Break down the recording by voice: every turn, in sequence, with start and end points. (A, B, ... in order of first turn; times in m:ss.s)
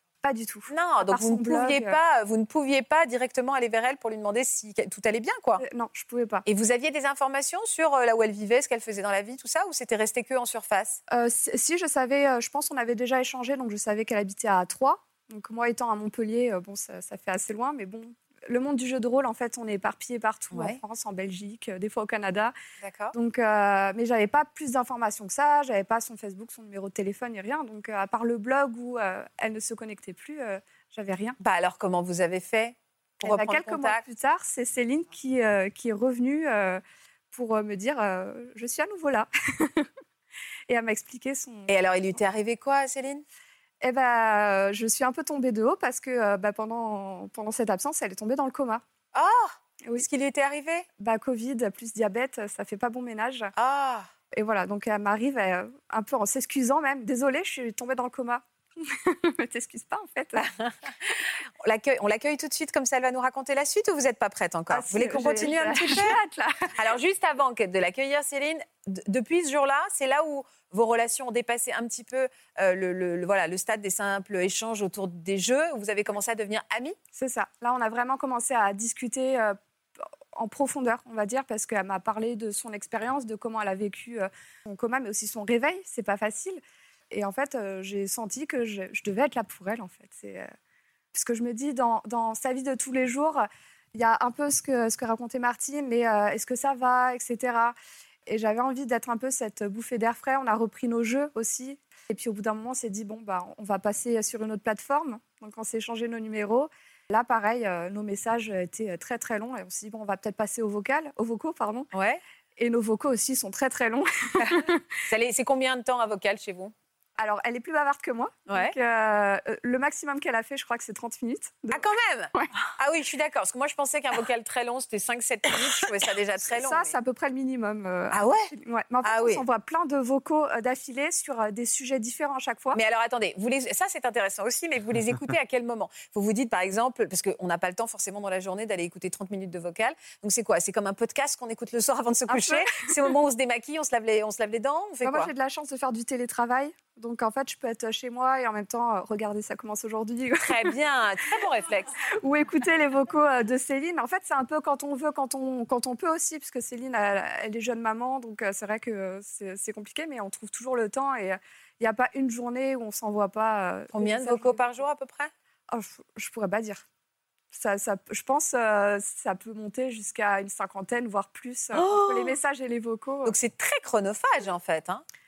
0:00.2-0:02.0 A
0:00.7-0:05.6 B
0:05.6-0:06.4 A
0:06.5-0:11.0 B
0:11.1-0:22.5 A
0:20.5-0:20.8 B
0:22.8-0:23.1 B
0:23.1-0:31.4 A
0:31.4-0:34.0 B
0:33.2-0:36.8 A
0:37.3-0:39.9 A
0:40.7-0:41.7 A
0:41.7-0:43.2 B
0:43.8-0:48.8 A
0:49.1-0:50.8 B
0:51.0-0:53.5 A
0:53.6-0:54.1 B
0:54.3-1:00.4 A
1:00.4-1:00.7 B
1:01.6-1:06.2 B
1:04.7-1:06.7 A
1:06.8-1:17.0 B
1:17.1-1:19.6 A
1:20.3-1:30.5 A
1:31.1-1:37.8 A
1:38.3-1:51.9 A
1:51.9-1:52.2 B
1:52.6-1:54.8 A
1:54.5-1:56.7 B
1:57.2-2:02.5 A
1:58.5-1:58.7 B
2:01.7-2:07.0 B
2:06.4-2:12.8 A
2:08.1-2:08.5 B
2:09.0-2:09.4 B
2:12.7-2:25.3 B
2:22.3-2:22.9 A
2:25.0-2:30.7 A
2:30.4-2:31.9 B
2:32.1-2:44.6 A
2:43.9-2:45.3 B
2:45.7-2:46.8 A
2:47.5-2:53.3 A
2:51.7-2:52.4 B
2:53.2-2:55.0 B